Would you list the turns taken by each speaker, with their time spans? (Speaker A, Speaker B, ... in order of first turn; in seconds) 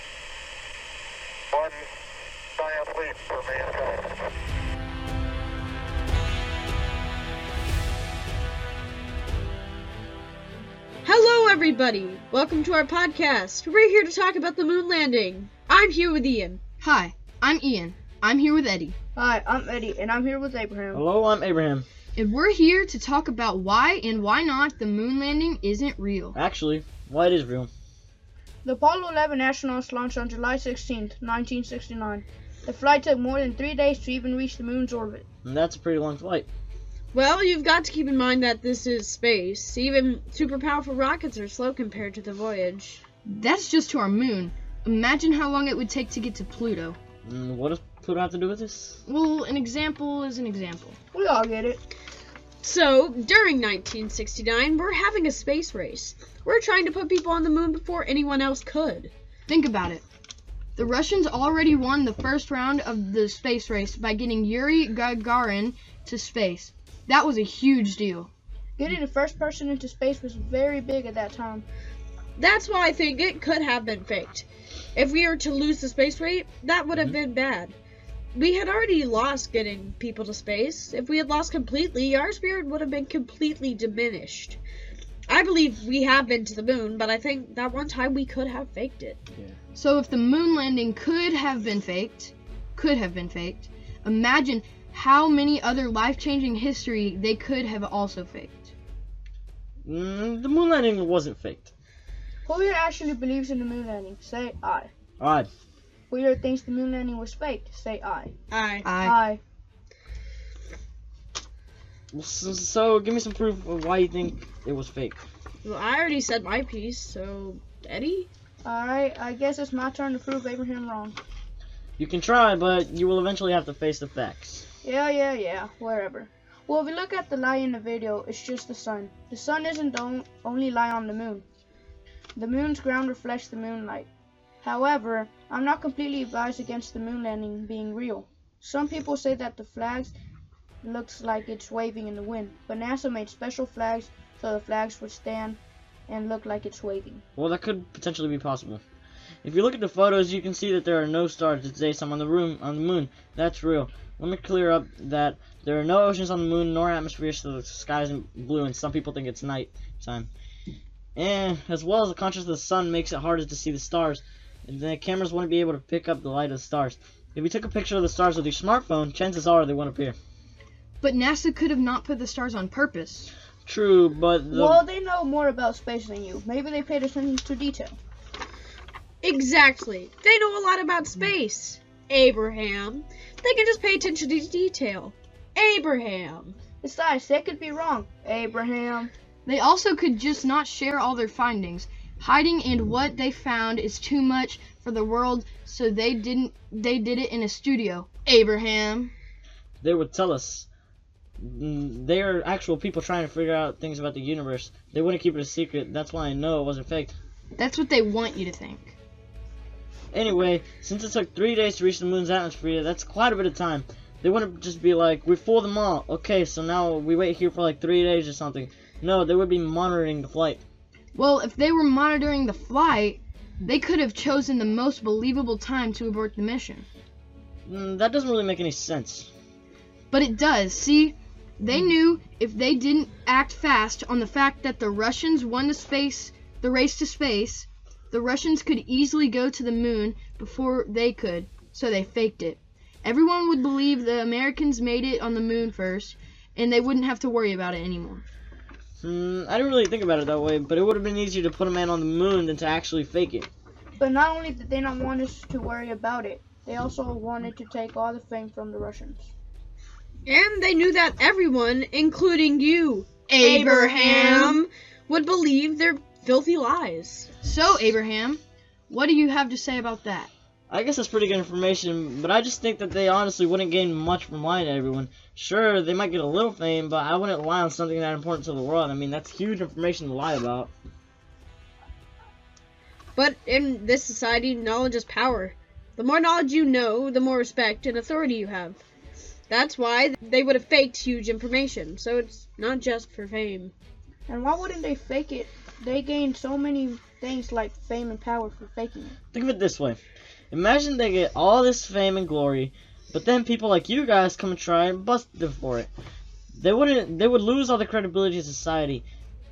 Speaker A: 1.5-1.9, 2.5-4.2
Speaker B: 11.0-16.6, 37.1-43.0, 52.6-59.1, 72.3-77.8, 78.3-84.6, 85.3-89.2, 108.5-108.9, 115.6-118.3, 179.2-186.6, 260.2-267.3, 283.1-288.8, 289.5-293.7
Speaker C: 16.8-18.9, 22.1-26.4, 43.2-47.0, 49.0-51.0, 59.5-60.0, 60.8-68.3, 89.7-98.7, 108.8-109.2, 171.0-173.3, 189.4-199.1, 207.6-208.9, 221.1-226.8, 230.1-248.2, 263.3-264.6, 267.4-270.3
Speaker D: 19.1-21.0, 28.6-35.2, 51.1-51.8, 68.8-71.6, 102.5-104.9, 106.1-108.3, 109.0-109.4, 118.6-121.2, 124.8-131.4, 132.3-134.1, 134.6-140.1, 140.8-147.2, 174.5-177.9, 186.8-189.1, 254.0-259.3, 263.4-264.4, 294.3-299.1
Speaker E: 20.9-21.9, 26.4-27.7, 35.4-36.5, 47.2-49.0, 99.8-101.7, 105.2-105.5, 112.1-115.2, 122.0-124.6, 147.3-148.8, 149.4-160.3, 161.2-170.2, 173.7-174.8, 199.8-200.7, 201.4-207.1, 210.1-220.6, 227.7-229.3, 249.0-253.5, 270.7-280.7, 299.3-300.0, 300.5-305.9, 306.6-309.0